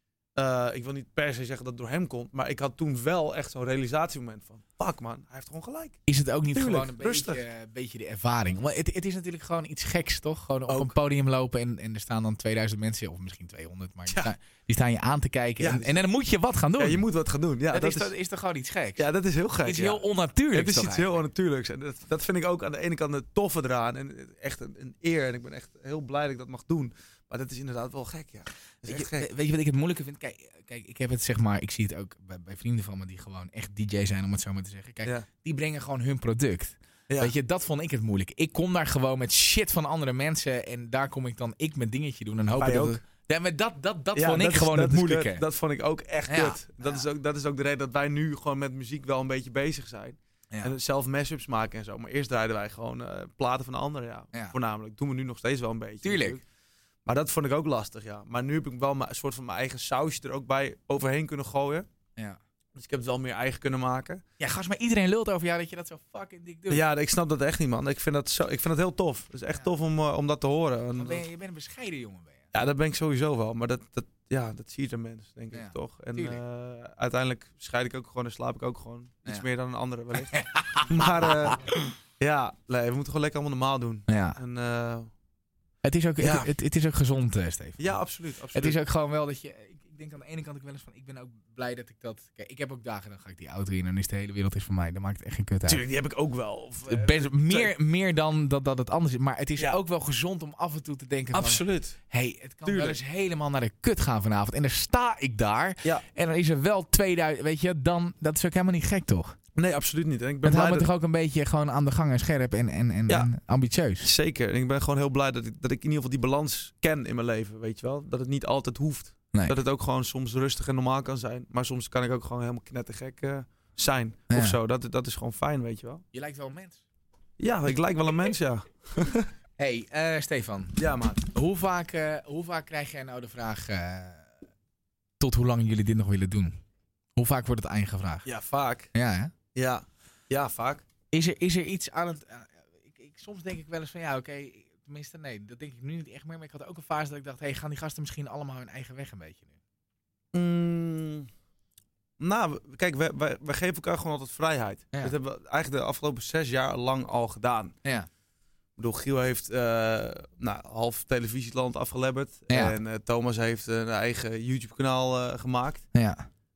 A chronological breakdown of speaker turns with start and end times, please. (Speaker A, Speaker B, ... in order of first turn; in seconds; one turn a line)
Speaker A: 0.3-6.0
Speaker B: 6.1-17.0
Speaker A: 6.5-7.4
Speaker A: 10.7-10.9
Speaker A: 15.6-16.0
Speaker A: 16.8-18.1
Speaker B: 17.7-19.1
Speaker A: 19.0-29.3
Speaker B: 19.6-21.2
Speaker B: 28.9-45.4
Speaker A: 42.6-43.0
Speaker A: 44.1-56.4
Speaker B: 46.3-47.0
Speaker B: 56.0-56.4
Speaker A: 57.0-61.9
Speaker A: 62.8-64.2
Speaker B: 64.4-66.8
Speaker A: 66.7-71.2
Speaker B: 71.0-72.4
Speaker A: 72.5-81.6
Speaker B: 75.5-76.4
Speaker B: 80.3-80.8
Speaker B: 81.4-81.8
Speaker A: 82.2-85.1
Speaker B: 84.1-84.4
Speaker B: 85.8-88.0
Speaker A: 86.2-86.5
Speaker A: 87.8-88.8
Speaker B: 88.5-95.8
Speaker A: 95.7-97.7
Speaker B: 96.9-109.3
Speaker A: 101.3-102.0
Speaker A: 102.7-103.0
Speaker A: 109.5-110.9
Speaker B: 110.4-114.1
Speaker A: 114.0-126.0
Speaker B: 124.3-124.6
Speaker B: 126.1-126.8
Speaker A: 127.4-129.3
Speaker B: 129.6-134.3
Speaker A: 130.8-131.3
Speaker B: 135.2-136.5
Speaker B: 137.2-138.3
Speaker A: 138.2-138.9
Speaker B: 138.9-139.3
Speaker A: 139.5-140.8
Speaker B: 141.1-149.5
Speaker A: 150.3-151.3
Speaker A: 152.2-157.7
Speaker A: 158.8-165.8
Speaker B: 162.5-162.8
Speaker B: 165.9-166.2